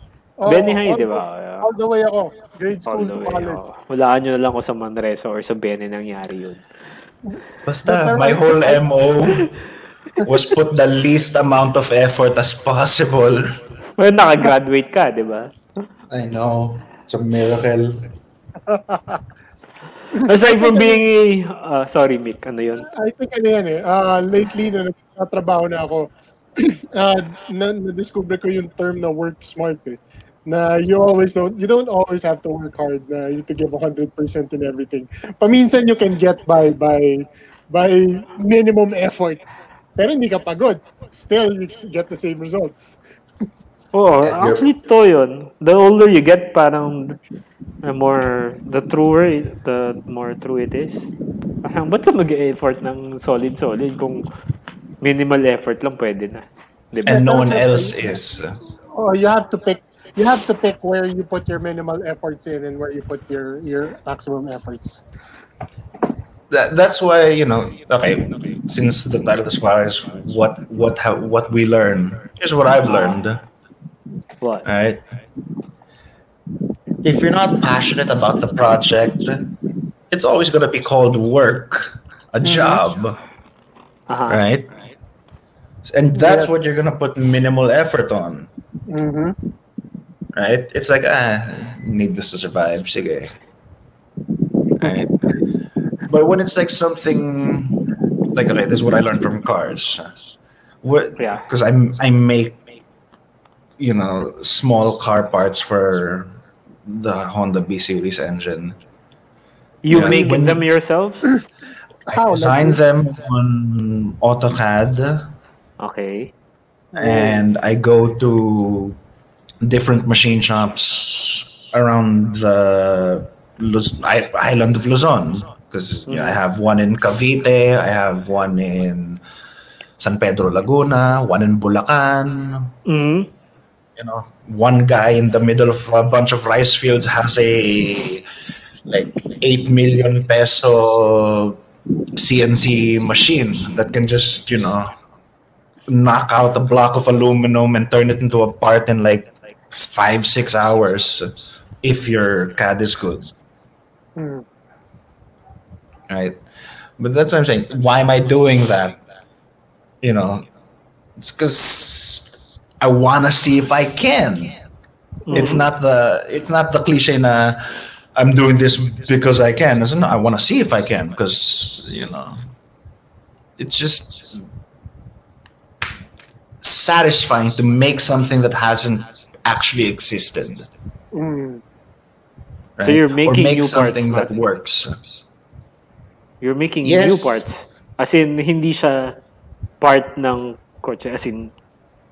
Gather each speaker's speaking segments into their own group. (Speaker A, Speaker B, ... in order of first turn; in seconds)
Speaker A: 0.4-3.6, 7.8-8.8, 18.7-19.2, 20.1-21.0, 22.9-39.4, 40.0-43.0, 57.1-57.9, 58.9-65.0, 82.4-82.8, 86.1-86.5, 88.9-89.4, 112.1-112.8, 116.9-117.4, 154.2-154.4, 181.1-181.6
Speaker B: 0.5-1.7, 2.9-6.6, 14.0-15.5, 20.1-22.9, 43.9-47.2, 47.8-51.1, 51.6-54.2, 55.0-57.6, 72.8-73.2, 74.4-74.7, 84.1-84.4, 101.2-101.4, 109.8-111.3, 115.8-116.3, 126.1-126.4, 132.8-133.3, 165.3-165.6, 182.8-184.3, 186.4-189.2, 189.8-191.5
Speaker C: 7.7-9.5, 10.2-13.6, 16.1-18.0, 44.2-44.6, 57.0-58.6, 66.5-73.4, 74.6-75.0, 77.0-79.5, 80.1-83.2, 84.3-84.7, 85.8-88.5, 90.3-93.3, 94.8-95.2, 96.1-97.8, 98.3-100.1, 100.8-102.6, 103.8-106.3, 106.8-108.8, 109.9-110.6, 112.1-115.3, 117.0-119.0, 119.6-129.2, 130.0-132.7, 134.0-138.2, 138.9-141.6, 142.2-144.9, 145.9-151.3, 151.8-153.3, 156.1-156.4, 157.0-159.0, 160.0-160.5, 161.2-164.5, 165.3-172.3, 173.6-174.4, 176.6-180.7, 182.8-185.1, 186.8-187.4